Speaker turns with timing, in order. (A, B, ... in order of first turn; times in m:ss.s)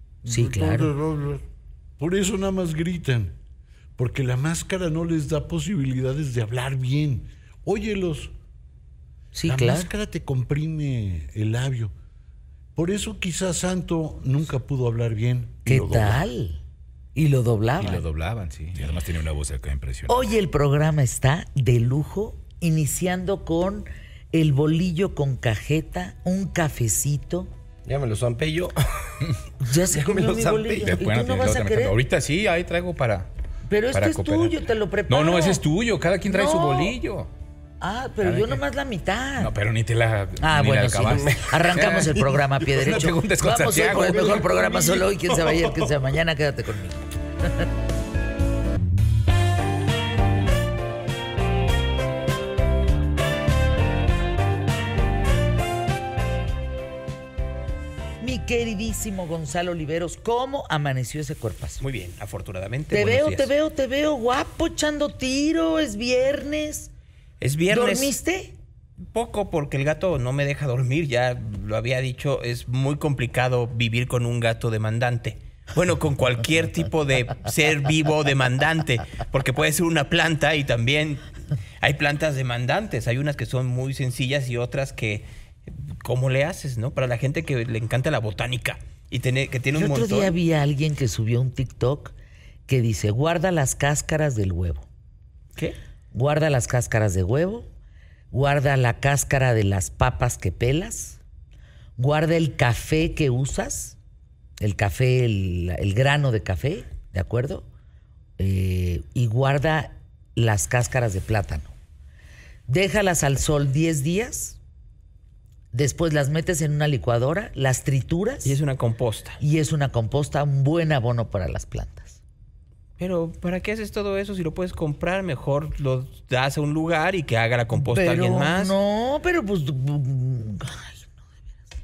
0:00.3-0:00.9 A
0:00.3-0:01.4 B
0:02.0-0:03.4 B
0:04.0-0:08.3 B
0:09.3-0:09.9 A
0:09.5-0:11.9 B
0:12.8-0:16.2 B
0:15.6-0:16.6 A
0:17.2-0:18.0 A
0:17.8-0:20.2 C
0:20.1-0:27.5 A
0:27.9-0:29.2 D
0:29.6-0:32.0 A
0:29.9-0:31.0 D
0:30.8-0:33.3 C
0:33.7-0:35.6 A
0:33.9-0:37.3 C
0:36.2-0:37.0 A
0:37.8-0:39.5 A
0:38.2-0:38.6 C
0:39.4-0:45.0 C
0:40.4-0:47.7 A
0:58.2-1:01.8 A
1:01.8-1:03.5 E
1:02.9-1:06.9 A
1:07.4-1:08.2 E
1:07.7-1:08.6 A
1:09.0-1:30.4 E
1:29.8-1:32.1 A
1:32.7-1:34.9 A
1:36.1-1:37.7 A
1:38.3-1:41.2 A
1:42.0-1:44.0 A
1:44.6-1:47.7 A
1:48.4-1:51.7 A
1:52.7-1:54.6 A
1:55.7-1:58.6 A
1:58.4-1:59.4 E
1:59.4-2:02.2 A
2:03.0-2:08.7 E
2:07.7-2:11.1 A